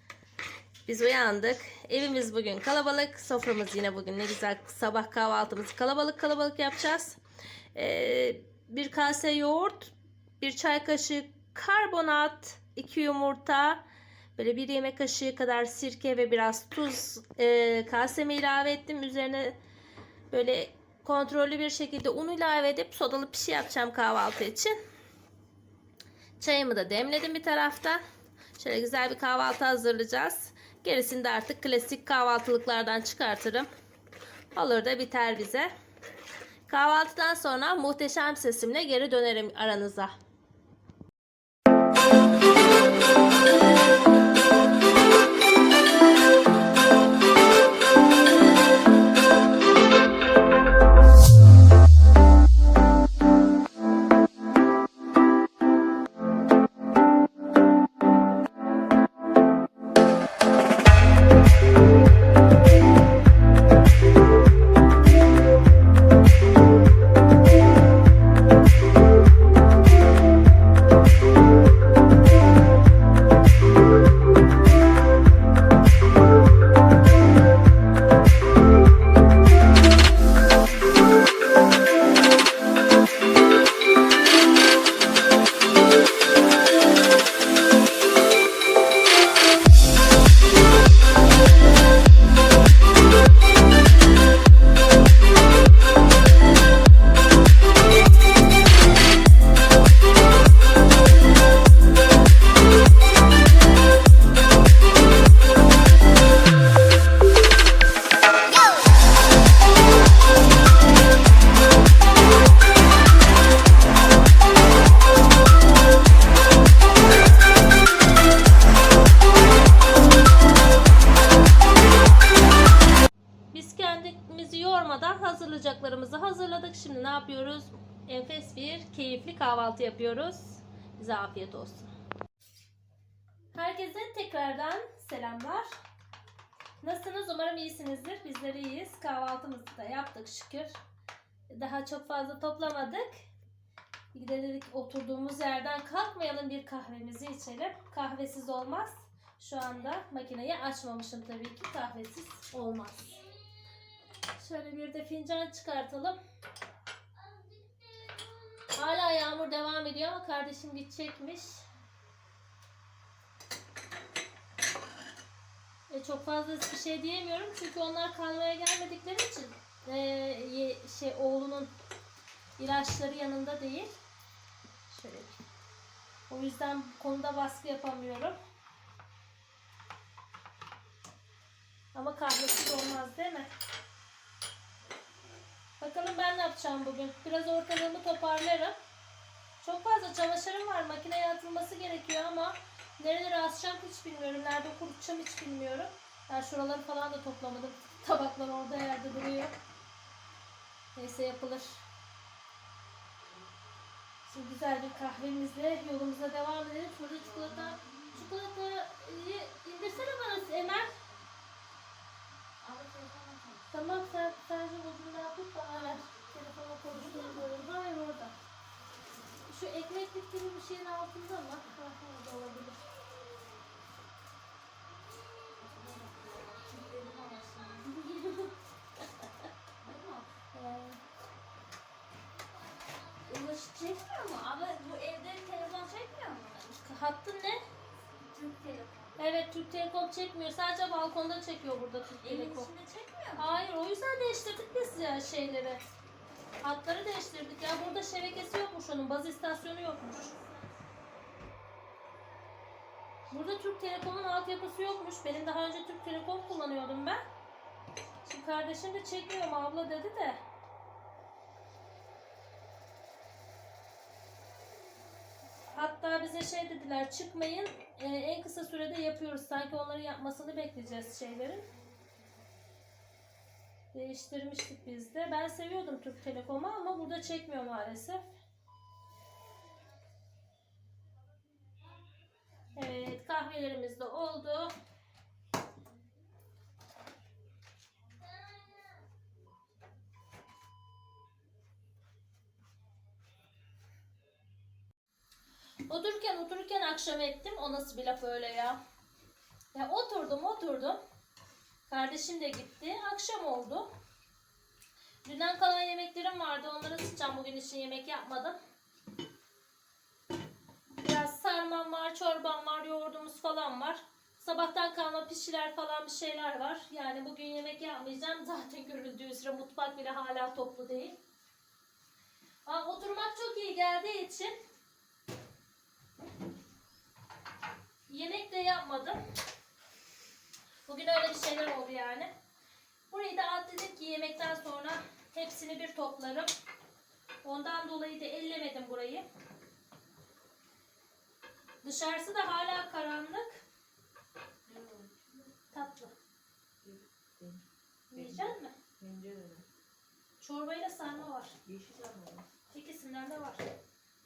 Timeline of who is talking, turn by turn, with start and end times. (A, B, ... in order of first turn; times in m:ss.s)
0:00.8-0:07.2 A
0:07.7-0:13.8 A
0:14.4-0:19.6 A
0:20.3-0:24.8 A
0:26.4-0:28.0 A
0:28.6-0:33.7 A
0:34.5-0:35.7 A
0:36.7-0:40.1 A
2:03.5-2:11.9 A
2:13.5-2:15.7 A
2:16.8-2:20.7 A
2:21.5-2:23.1 A
2:24.1-2:33.4 A
2:34.2-2:36.2 A
2:37.3-2:41.7 A
2:45.9-2:51.7 A
2:52.6-2:53.9 A
2:54.9-2:55.4 A
2:56.3-2:58.4 A
3:01.9-3:03.5 A
3:05.8-3:08.7 A
3:09.6-3:19.5 A
3:20.9-3:21.8 A
3:24.2-3:31.0 A
3:32.6-3:33.8 B
3:33.7-3:38.3 A
3:39.3-3:42.8 A
3:45.6-3:48.5 B
3:49.8-3:50.3 B
3:50.5-3:51.0 A
3:53.2-3:56.8 B
3:56.7-3:57.6 A
3:58.2-3:59.2 B
3:59.2-4:02.7 A
4:02.2-4:03.4 B
4:03.4-4:05.8 A
4:06.6-4:10.4 A
4:13.3-4:17.2 A
4:18.2-4:20.4 A
4:25.7-4:31.7 A
4:33.9-4:38.2 A
4:42.7-4:44.7 A
4:55.9-4:58.8 A
4:59.7-5:01.0 A
5:01.9-5:03.9 A
5:05.2-5:08.6 A
5:11.0-5:21.2 A
5:22.6-5:24.6 A
5:28.1-5:29.2 A
5:30.8-5:32.3 A
5:33.1-5:36.5 A
5:37.4-5:39.2 A
5:41.8-5:43.6 A
5:44.7-5:45.1 B
5:45.7-5:46.1 A
5:46.8-5:47.6 B
5:48.1-5:48.8 A
5:48.2-5:49.6 B
5:50.4-5:51.6 A
5:51.6-5:52.4 B
5:52.7-5:53.7 A